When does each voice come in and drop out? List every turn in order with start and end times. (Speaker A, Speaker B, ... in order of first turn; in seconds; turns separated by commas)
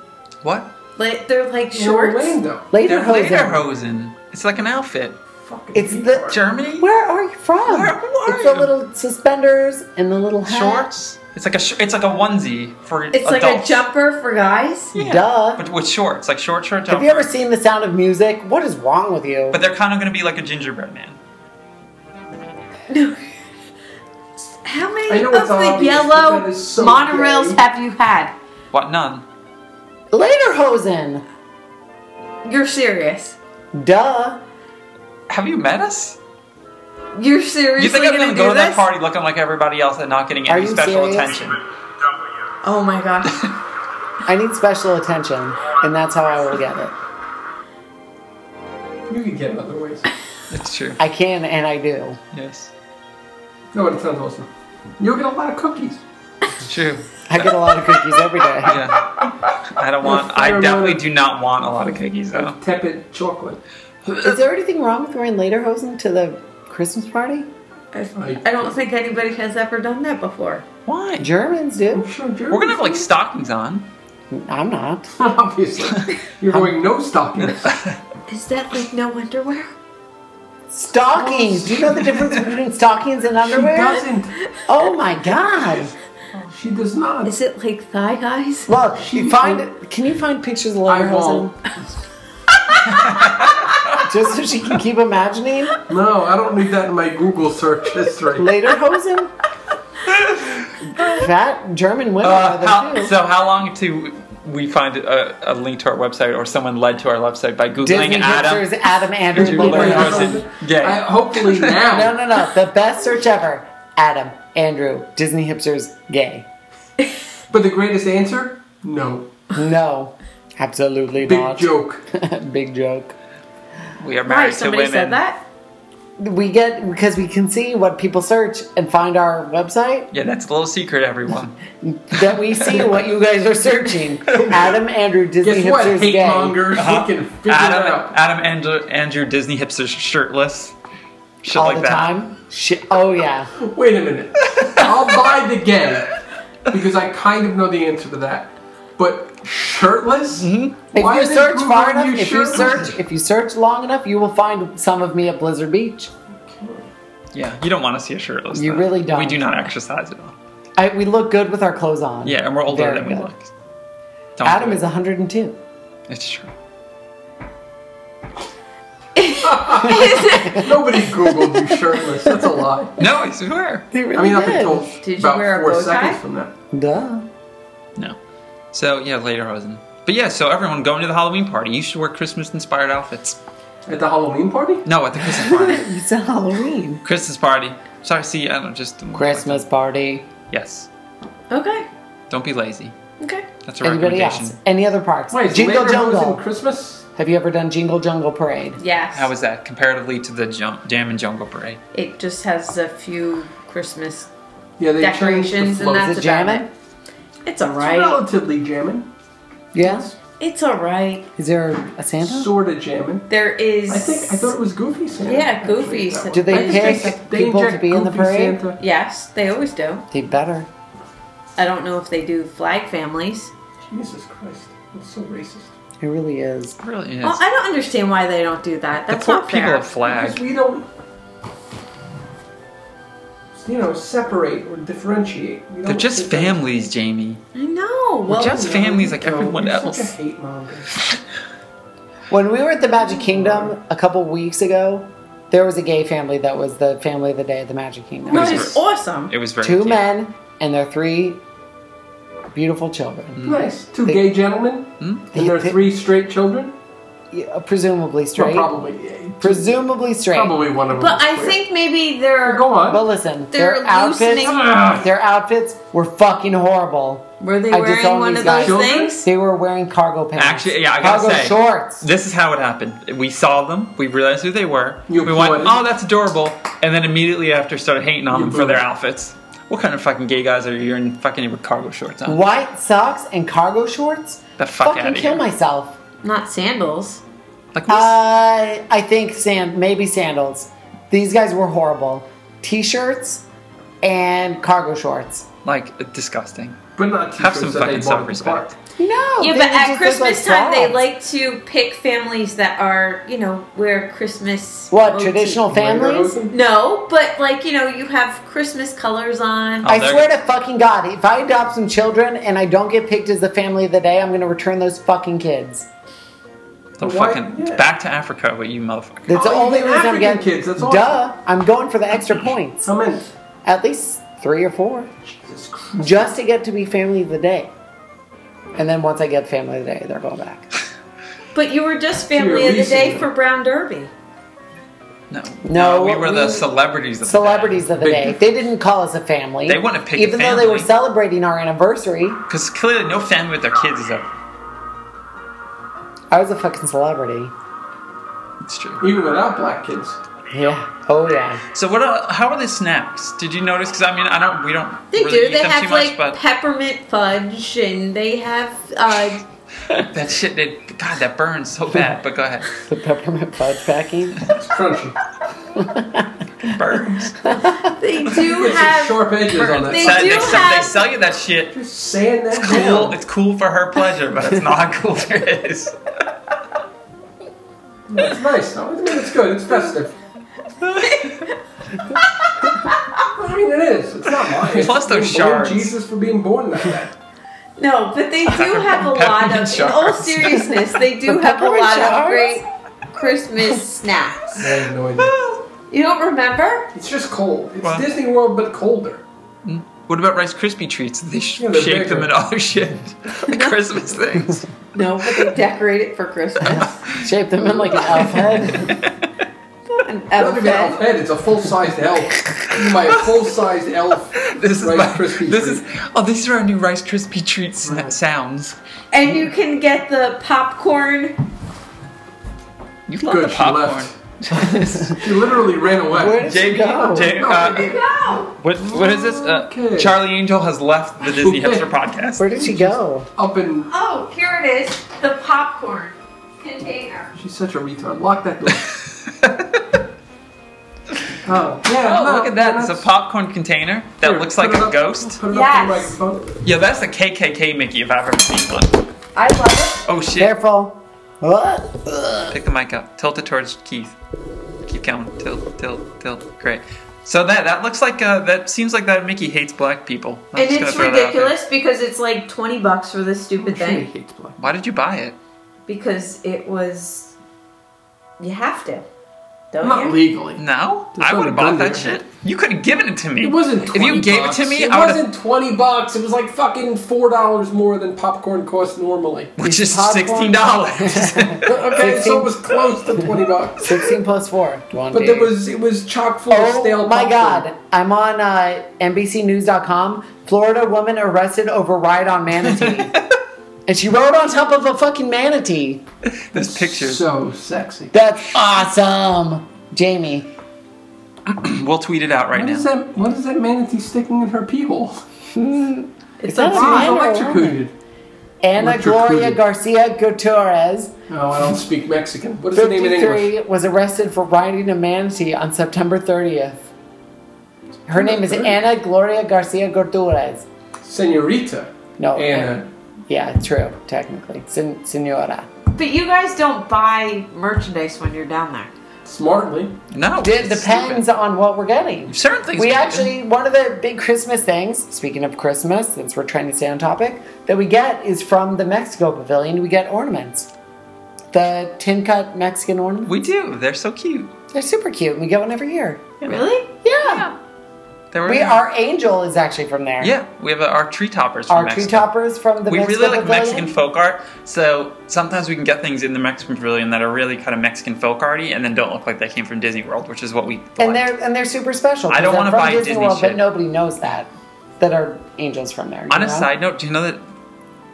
Speaker A: 0.4-0.7, Speaker B: 1.0-2.4, Speaker C: 1.7-2.7, Speaker D: 2.7-3.6, Speaker A: 2.8-5.2, Speaker C: 5.4-6.4, Speaker D: 5.7-10.9, Speaker A: 6.3-6.9, Speaker A: 7.7-8.7, Speaker A: 10.4-13.8, Speaker B: 13.1-14.9, Speaker D: 14.9-15.6, Speaker A: 14.9-17.3, Speaker D: 16.9-19.6, Speaker A: 19.5-21.2, Speaker B: 22.9-23.2, Speaker B: 24.6-28.3, Speaker C: 25.1-27.6, Speaker A: 28.7-29.2, Speaker D: 30.1-31.2, Speaker B: 32.4-33.4, Speaker D: 33.7-34.4, Speaker A: 35.3-36.2, Speaker B: 37.1-38.9, Speaker A: 37.8-41.6, Speaker D: 40.5-41.5, Speaker B: 42.6-43.5, Speaker D: 44.2-46.9, Speaker C: 49.1-50.1, Speaker A: 50.5-51.0, Speaker D: 51.0-52.2, Speaker A: 52.3-52.7, Speaker C: 53.7-56.0, Speaker A: 56.6-57.7, Speaker D: 57.3-58.9, Speaker A: 58.6-59.1, Speaker A: 59.7-62.6, Speaker C: 60.0-61.0, Speaker C: 62.3-63.6, Speaker A: 64.0-64.3, Speaker D: 64.2-67.5, Speaker B: 67.9-70.6, Speaker C: 68.2-68.8, Speaker A: 70.8-71.3, Speaker D: 71.2-72.1, Speaker C: 71.9-73.1, Speaker A: 72.5-73.9, Speaker D: 74.3-75.1, Speaker C: 75.2-77.7, Speaker B: 78.3-79.7, Speaker D: 80.7-84.1, Speaker C: 81.1-82.0, Speaker C: 83.4-84.3, Speaker D: 84.7-85.9, Speaker C: 86.5-87.3, Speaker B: 87.2-88.7, Speaker D: 88.7-91.5, Speaker C: 89.0-89.6, Speaker C: 90.9-91.5, Speaker A: 92.9-94.0, Speaker D: 94.0-95.8, Speaker C: 95.9-98.5, Speaker D: 98.4-99.3, Speaker A: 100.1-101.0, Speaker D: 101.0-103.1, Speaker A: 102.2-108.7, Speaker D: 107.8-110.4, Speaker A: 109.3-111.8, Speaker C: 109.3-112.1, Speaker D: 111.8-116.5, Speaker C: 117.5-119.3, Speaker D: 119.5-123.1, Speaker C: 121.2-122.0, Speaker A: 124.0-125.2, Speaker B: 124.2-125.4, Speaker D: 126.2-130.1, Speaker A: 130.1-131.6, Speaker D: 131.8-136.6, Speaker C: 135.4-138.2, Speaker A: 136.7-140.7, Speaker A: 141.4-142.1, Speaker D: 141.5-143.5, Speaker C: 143.6-152.8, Speaker A: 150.4-150.8, Speaker D: 150.9-156.1, Speaker C: 156.3-156.9, Speaker A: 157.3-160.3, Speaker D: 158.5-159.5, Speaker D: 160.8-163.3, Speaker A: 162.2-163.5, Speaker A: 164.4-164.8, Speaker D: 164.4-165.6, Speaker A: 166.1-166.5, Speaker B: 169.2-170.7, Speaker C: 169.4-172.9, Speaker D: 170.4-170.7, Speaker D: 171.3-171.8, Speaker A: 173.0-173.8, Speaker D: 173.9-174.9, Speaker C: 174.1-176.5, Speaker B: 175.0-176.2, Speaker D: 176.7-177.3, Speaker A: 178.7-183.4, Speaker C: 183.8-184.9, Speaker A: 184.8-185.9, Speaker D: 185.2-187.0, Speaker A: 187.0-189.6, Speaker D: 189.1-190.3, Speaker A: 190.5-190.9, Speaker B: 191.5-191.9, Speaker A: 192.3-192.9, Speaker B: 193.2-193.4, Speaker A: 193.6-194.6, Speaker D: 193.8-196.4, Speaker C: 195.3-197.1, Speaker D: 197.2-198.8, Speaker B: 198.8-199.3, Speaker A: 199.1-201.8, Speaker B: 201.9-204.3, Speaker C: 204.8-206.2, Speaker B: 205.0-206.7, Speaker D: 205.9-206.7, Speaker B: 207.4-208.2, Speaker C: 207.6-209.1, Speaker D: 209.7-210.1, Speaker C: 209.8-210.1, Speaker B: 210.4-211.3, Speaker D: 211.4-212.5, Speaker C: 212.2-213.3, Speaker B: 213.3-214.6, Speaker C: 213.9-218.8, Speaker B: 215.2-217.1, Speaker D: 216.3-218.6, Speaker B: 218.8-220.1, Speaker D: 220.1-220.7, Speaker B: 221.6-223.5, Speaker C: 223.8-225.7, Speaker D: 226.0-226.8, Speaker A: 226.8-227.4, Speaker B: 227.2-229.8, Speaker A: 229.1-230.4, Speaker C: 230.0-230.8, Speaker C: 233.5-236.6, Speaker A: 235.8-237.4, Speaker B: 237.5-238.6, Speaker C: 238.3-240.9, Speaker A: 238.3-240.1, Speaker D: 242.3-248.8, Speaker C: 243.3-243.7, Speaker B: 248.3-249.3, Speaker A: 248.3-250.0, Speaker C: 248.3-248.7, Speaker D: 249.6-251.4, Speaker D: 252.5-253.5, Speaker A: 253.3-253.7, Speaker C: 253.4-256.7, Speaker A: 255.0-255.3, Speaker D: 255.3-255.8, Speaker D: 257.3-258.7, Speaker C: 258.4-259.7, Speaker D: 259.4-260.6, Speaker C: 260.3-261.6, Speaker B: 260.9-262.7, Speaker C: 262.4-263.0, Speaker D: 262.9-272.1, Speaker B: 263.5-264.7, Speaker C: 264.3-265.1, Speaker B: 267.4-269.3, Speaker C: 268.5-269.1, Speaker A: 270.4-282.4, Speaker C: 275.1-275.8, Speaker C: 278.3-278.8, Speaker D: 282.3-286.0, Speaker A: 284.6-285.4, Speaker B: 286.2-287.2, Speaker A: 287.7-288.1, Speaker D: 287.9-293.4, Speaker D: 294.0-295.5, Speaker A: 295.6-296.8, Speaker C: 296.9-298.7, Speaker A: 297.4-298.7, Speaker D: 299.0-301.0, Speaker B: 299.4-305.6, Speaker D: 304.9-306.4, Speaker C: 305.7-306.5, Speaker B: 306.5-309.9, Speaker A: 309.8-310.3, Speaker D: 309.9-315.9, Speaker A: 317.0-319.4, Speaker C: 317.0-317.9, Speaker D: 319.3-322.9, Speaker C: 319.3-321.2, Speaker C: 322.8-323.3, Speaker D: 323.6-325.1, Speaker C: 325.3-326.3, Speaker D: 326.0-327.7, Speaker D: 328.7-330.7, Speaker B: 331.5-334.1, Speaker C: 332.2-333.3, Speaker A: 335.3-337.8, Speaker D: 335.6-336.7, Speaker D: 337.2-342.4, Speaker C: 337.9-338.4, Speaker A: 339.6-340.9, Speaker A: 342.5-344.3, Speaker D: 346.3-347.5, Speaker A: 348.6-349.0, Speaker C: 349.0-350.2, Speaker D: 350.5-351.6, Speaker A: 351.7-356.4, Speaker B: 355.1-359.4, Speaker A: 359.9-362.7, Speaker D: 362.8-364.5, Speaker C: 364.6-365.2, Speaker D: 365.7-366.4, Speaker A: 366.6-367.5, Speaker D: 367.4-367.9, Speaker B: 367.8-371.0, Speaker C: 368.2-370.7, Speaker A: 369.5-371.8, Speaker C: 371.7-373.2, Speaker A: 372.5-376.1, Speaker C: 378.1-380.1, Speaker A: 380.8-381.3, Speaker B: 381.0-381.6, Speaker B: 382.8-383.2, Speaker C: 383.3-387.1, Speaker A: 384.6-385.9, Speaker B: 387.8-394.6, Speaker A: 388.5-390.8, Speaker D: 391.2-392.6, Speaker C: 394.6-395.4, Speaker A: 395.2-395.5, Speaker B: 395.9-396.9, Speaker C: 396.9-399.2, Speaker A: 397.8-398.1, Speaker A: 399.6-404.7, Speaker C: 401.6-402.3, Speaker B: 403.5-403.8, Speaker B: 404.9-407.0, Speaker A: 406.7-407.2, Speaker D: 407.0-409.0, Speaker A: 408.0-409.2, Speaker B: 409.9-411.0, Speaker C: 410.4-415.8, Speaker A: 412.8-413.1, Speaker A: 414.4-418.8, Speaker C: 417.8-418.1, Speaker B: 419.1-421.4, Speaker A: 423.1-425.2, Speaker C: 423.2-424.1, Speaker D: 424.5-425.2, Speaker C: 425.1-428.0, Speaker D: 426.1-427.4, Speaker A: 426.3-428.0, Speaker B: 427.5-428.6, Speaker A: 428.6-432.6, Speaker C: 428.8-430.1, Speaker C: 431.2-431.9, Speaker D: 432.4-433.3, Speaker C: 432.6-433.9, Speaker B: 433.9-437.3, Speaker C: 437.4-438.9, Speaker A: 438.9-439.8, Speaker C: 441.4-443.1, Speaker A: 441.9-445.4, Speaker C: 444.2-446.5, Speaker B: 445.5-446.1, Speaker A: 446.6-449.0, Speaker B: 449.4-450.0, Speaker A: 450.1-450.5, Speaker D: 450.4-452.6, Speaker A: 452.5-454.1, Speaker A: 454.8-461.6, Speaker B: 460.5-464.1, Speaker C: 463.6-464.6, Speaker A: 464.6-465.4, Speaker B: 465.9-467.3, Speaker B: 468.4-469.1, Speaker B: 469.7-470.1, Speaker C: 469.8-470.6, Speaker A: 470.6-475.2, Speaker C: 471.1-472.2, Speaker C: 473.4-479.5, Speaker A: 479.6-481.9, Speaker D: 479.6-482.5, Speaker C: 481.6-484.1, Speaker D: 483.8-485.5, Speaker C: 485.1-487.6, Speaker D: 486.5-493.1, Speaker A: 492.8-493.1, Speaker D: 493.9-496.0, Speaker A: 496.5-497.2, Speaker C: 496.6-498.1, Speaker D: 498.1-500.5, Speaker A: 501.5-502.9, Speaker C: 502.5-505.2, Speaker D: 505.5-507.8, Speaker B: 506.4-507.2, Speaker C: 506.7-507.9, Speaker D: 508.6-511.1, Speaker C: 508.8-509.6, Speaker C: 511.3-513.5, Speaker D: 512.7-516.9, Speaker D: 518.1-520.6, Speaker C: 518.1-518.8, Speaker C: 521.0-522.9, Speaker D: 522.2-525.7, Speaker B: 525.9-528.9, Speaker C: 529.2-530.0, Speaker A: 530.1-531.2, Speaker D: 530.4-540.7, Speaker A: 532.3-533.3, Speaker D: 541.5-543.3, Speaker A: 543.2-544.5, Speaker D: 544.7-546.5, Speaker B: 546.4-547.5, Speaker D: 547.0-547.5, Speaker A: 548.3-548.8, Speaker D: 548.5-550.3, Speaker A: 550.2-552.3, Speaker D: 551.7-553.9, Speaker A: 552.9-561.3, Speaker D: 561.0-566.7, Speaker A: 562.3-563.6, Speaker A: 566.3-567.4